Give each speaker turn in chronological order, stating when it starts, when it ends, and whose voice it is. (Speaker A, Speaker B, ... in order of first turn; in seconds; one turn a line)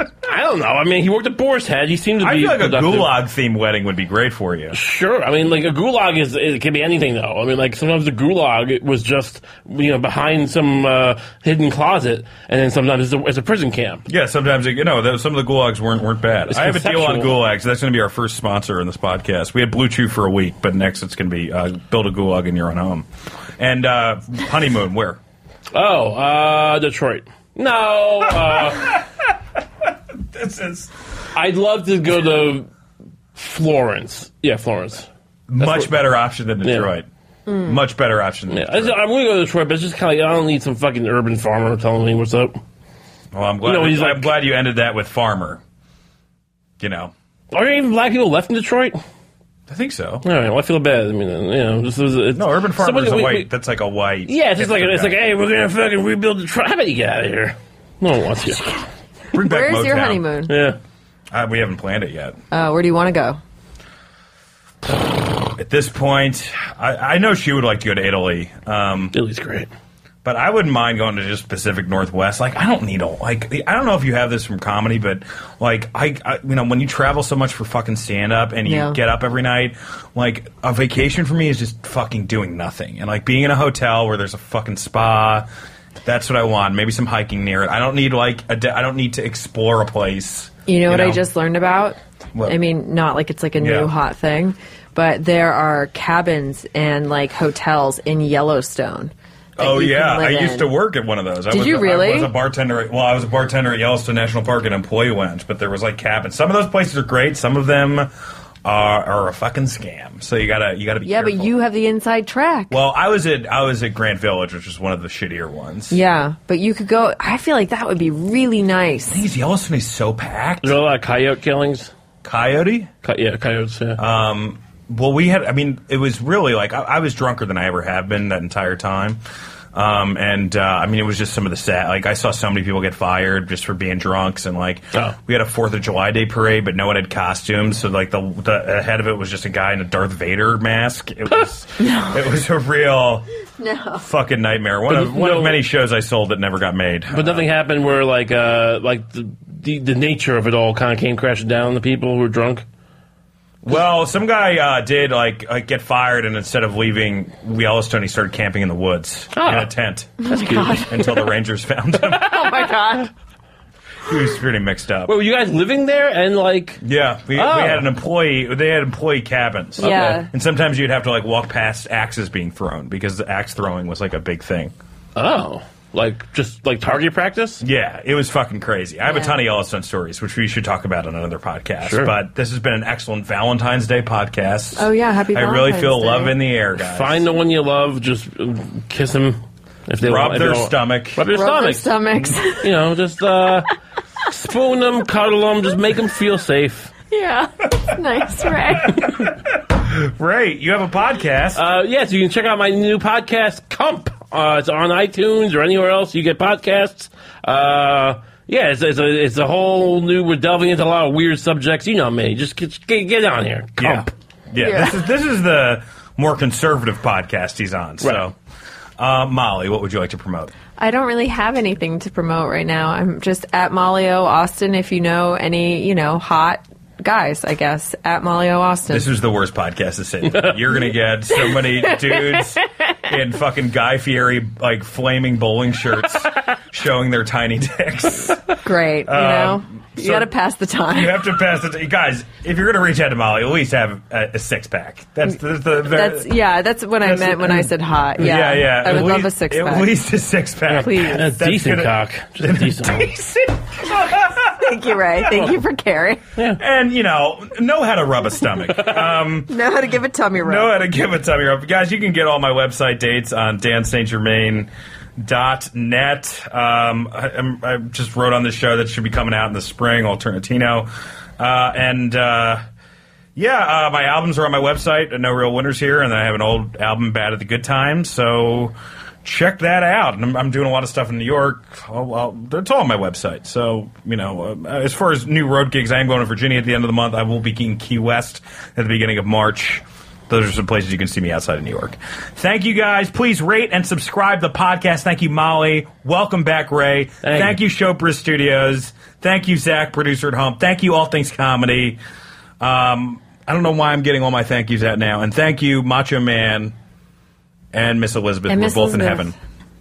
Speaker A: 0.2-3.1
Speaker B: 2.2-4.8
Speaker A: 4.7-14.0
Speaker B: 14.1-23.1
Speaker A: 16.5-17.4
Speaker B: 23.6-25.2
Speaker A: 25.7-29.0
Speaker B: 28.5-29.2
Speaker B: 30.3-30.9
Speaker A: 31.3-32.7
Speaker A: 33.3-35.1
Speaker B: 35.5-37.1
Speaker A: 35.6-35.9
Speaker A: 36.6-36.9
Speaker C: 37.5-37.8
Speaker B: 37.6-39.0
Speaker A: 38.5-42.6
Speaker B: 43.3-45.6
Speaker A: 43.6-44.4
Speaker B: 46.8-47.1
Speaker A: 47.5-49.0
Speaker B: 49.7-50.2
Speaker A: 50.2-53.5
Speaker B: 52.3-55.1
Speaker A: 54.3-58.6
Speaker C: 58.6-60.5
Speaker B: 59.3-60.2
Speaker A: 60.5-60.8
Speaker B: 61.3-62.4
Speaker C: 62.5-63.4
Speaker B: 64.9-69.1
Speaker A: 69.1-69.7
Speaker B: 70.2-85.5
Speaker C: 78.6-79.0
Speaker B: 86.0-91.2
Speaker C: 90.7-100.7
Speaker B: 93.6-93.9
Speaker B: 99.6-108.1
Speaker C: 101.5-102.3
Speaker B: 108.6-111.5
Speaker C: 111.0-112.7
Speaker B: 112.7-116.0
Speaker C: 115.9-119.2
Speaker B: 119.1-120.7
Speaker A: 120.6-121.9
Speaker B: 122.2-122.9
Speaker A: 123.0-124.0
Speaker B: 124.0-129.2
Speaker B: 129.7-143.3
Speaker C: 141.8-142.1
Speaker C: 143.6-144.0
Speaker B: 144.0-147.4
Speaker A: 144.9-145.6
Speaker A: 147.1-152.6
Speaker B: 153.6-162.7
Speaker A: 159.3-159.7
Speaker C: 160.2-161.1
Speaker A: 160.3-160.8
Speaker C: 162.1-163.1
Speaker B: 164.1-165.1
Speaker A: 165.1-166.8
Speaker B: 166.8-174.7
Speaker A: 167.3-167.9
Speaker C: 169.8-170.3
Speaker A: 169.8-170.2
Speaker A: 175.2-177.6
Speaker B: 177.6-187.2
Speaker A: 181.8-182.1
Speaker C: 184.8-186.3
Speaker A: 186.8-192.0
Speaker B: 190.0-191.2
Speaker C: 191.3-192.7
Speaker A: 192.5-193.7
Speaker A: 194.2-196.9
Speaker C: 197.1-199.1
Speaker B: 198.8-201.6
Speaker A: 201.5-214.1
Speaker B: 213.8-218.3
Speaker C: 214.6-215.0
Speaker B: 219.0-220.5
Speaker C: 220.8-229.1
Speaker B: 228.9-238.4
Speaker C: 231.5-232.6
Speaker C: 238.6-241.2
Speaker B: 239.0-240.3
Speaker B: 240.9-246.3
Speaker C: 245.8-249.9
Speaker B: 247.0-254.6
Speaker A: 250.7-253.1
Speaker C: 250.8-251.3
Speaker C: 254.4-256.2
Speaker A: 255.3-255.6
Speaker B: 256.6-259.5
Speaker C: 259.5-260.7
Speaker B: 260.4-270.9
Speaker B: 271.4-272.6
Speaker B: 273.4-302.0
Speaker A: 297.2-297.5
Speaker B: 302.6-306.7
Speaker B: 307.7-309.4
Speaker C: 308.5-309.3